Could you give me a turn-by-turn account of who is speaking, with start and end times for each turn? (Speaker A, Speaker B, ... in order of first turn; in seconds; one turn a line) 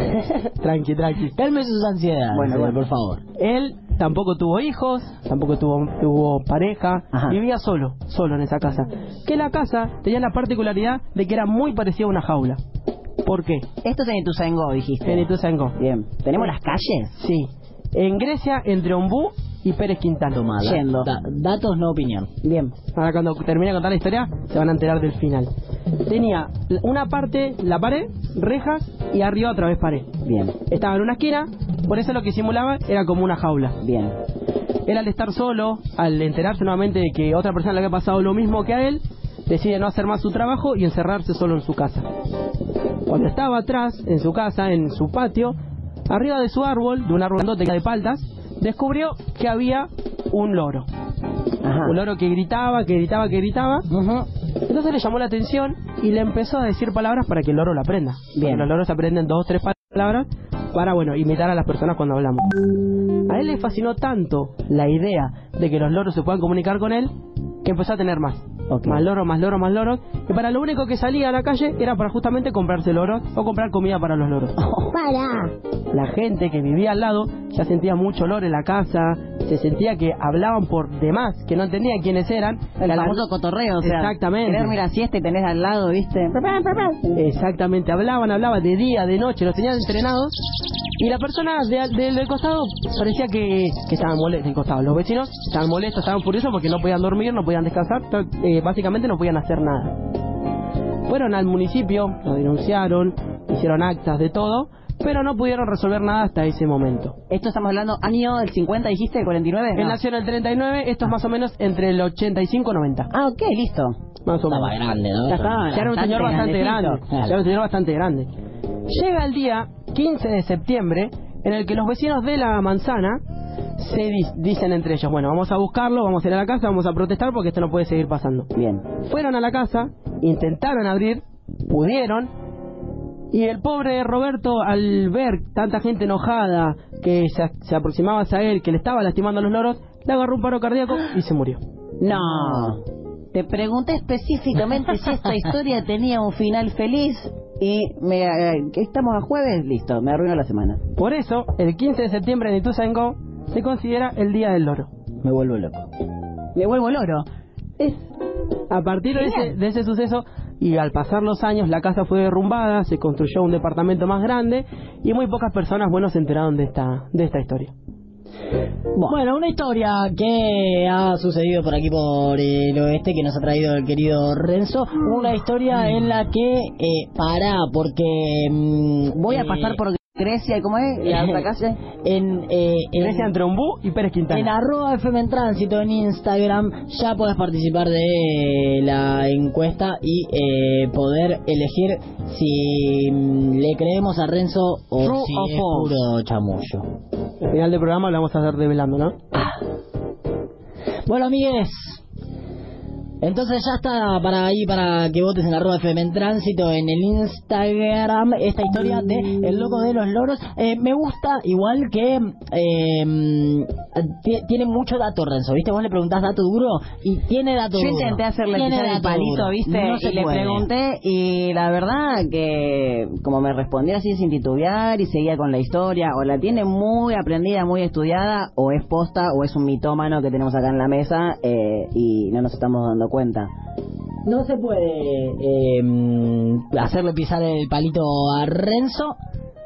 Speaker A: 0.3-1.3
Speaker B: 1.4-3.2
Speaker C: 2.3-2.8
Speaker A: 3.4-12.6
Speaker C: 7.1-7.4
Speaker A: 13.2-13.7
Speaker C: 13.8-15.2
Speaker A: 15.0-15.8
Speaker C: 15.8-17.2
Speaker A: 17.2-20.5
Speaker B: 20.3-22.3
Speaker C: 20.6-21.1
Speaker C: 22.4-22.8
Speaker A: 22.9-25.5
Speaker A: 26.1-30.1
Speaker C: 30.2-30.6
Speaker A: 30.6-33.8
Speaker C: 33.8-34.2
Speaker A: 34.9-42.1
Speaker A: 43.1-45.5
Speaker A: 46.1-50.9
Speaker C: 51.6-52.0
Speaker A: 51.8-53.9
Speaker C: 53.9-54.3
Speaker A: 54.6-62.5
Speaker C: 58.4-58.7
Speaker A: 63.3-67.1
Speaker A: 67.6-74.5
Speaker C: 68.7-69.0
Speaker C: 74.6-75.5
Speaker A: 75.9-83.2
Speaker C: 82.8-87.1
Speaker A: 83.8-84.8
Speaker A: 87.2-90.4
Speaker A: 91.0-100.0
Speaker A: 101.1-107.2
Speaker C: 107.3-110.0
Speaker A: 109.8-113.1
Speaker C: 113.1-114.0
Speaker A: 114.2-114.7
Speaker B: 114.5-115.6
Speaker C: 115.3-117.0
Speaker A: 115.7-118.3
Speaker A: 118.9-123.2
Speaker A: 123.8-132.3
Speaker C: 128.6-128.8
Speaker A: 133.3-141.6
Speaker C: 142.0-142.8
Speaker C: 143.3-150.8
Speaker A: 150.9-154.9
Speaker B: 155.2-155.9
Speaker C: 156.6-157.2
Speaker A: 158.7-167.7
Speaker C: 159.1-159.5
Speaker B: 169.0-179.8
Speaker C: 179.1-181.8
Speaker B: 182.0-183.3
Speaker A: 183.0-184.5
Speaker B: 184.3-196.9
Speaker C: 195.0-195.9
Speaker A: 197.4-199.2
Speaker B: 199.3-199.6
Speaker B: 201.1-202.0
Speaker B: 203.2-220.7
Speaker C: 217.8-233.5
Speaker B: 234.2-239.2